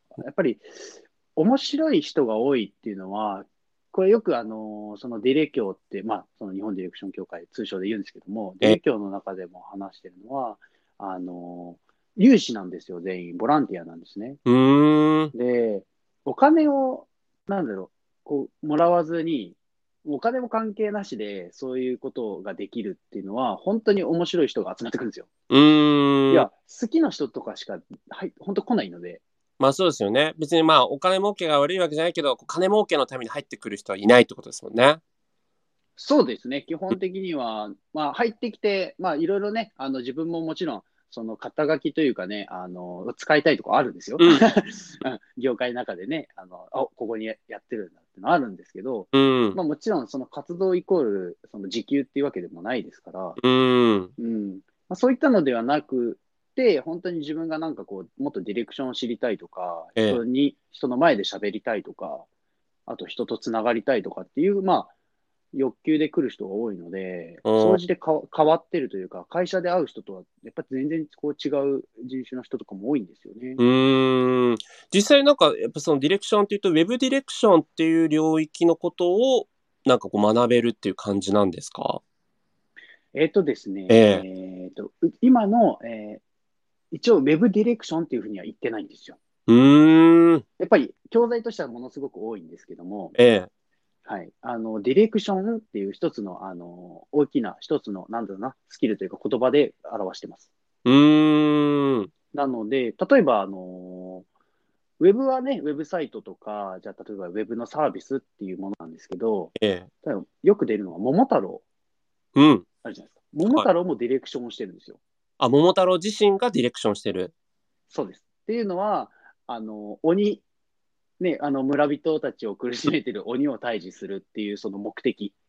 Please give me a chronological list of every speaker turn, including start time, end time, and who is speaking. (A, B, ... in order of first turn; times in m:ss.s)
0:00.2-0:14.4 A
0:14.4-0:15.3 B
0:15.3-0:25.3 A
0:25.5-0:26.5 B
0:26.3-0:29.2 A
0:29.6-0:35.0 B
0:36.0-0:53.4 A
0:49.1-0:49.6 B
0:53.4-0:54.1 B
0:54.2-1:02.2 A
1:00.0-1:00.2 B
1:02.8-1:04.9 A
1:05.5-1:13.6 A
1:07.4-1:07.8 B
1:13.6-1:22.0 B
1:23.1-1:26.2 A
1:23.9-1:24.2 B
1:26.9-1:29.2 A
1:29.5-1:30.4 B
1:30.6-1:33.1 A
1:33.2-1:33.5 B
1:34.0-1:40.5 A
1:40.8-1:42.1 B
1:42.3-1:44.3 A
1:45.0-1:51.6 A
1:49.6-1:49.9 B
1:52.4-1:52.6 B
1:52.8-1:55.0 A
1:55.4-1:57.3 B
1:57.9-2:00.4 A
2:01.2-2:05.3 A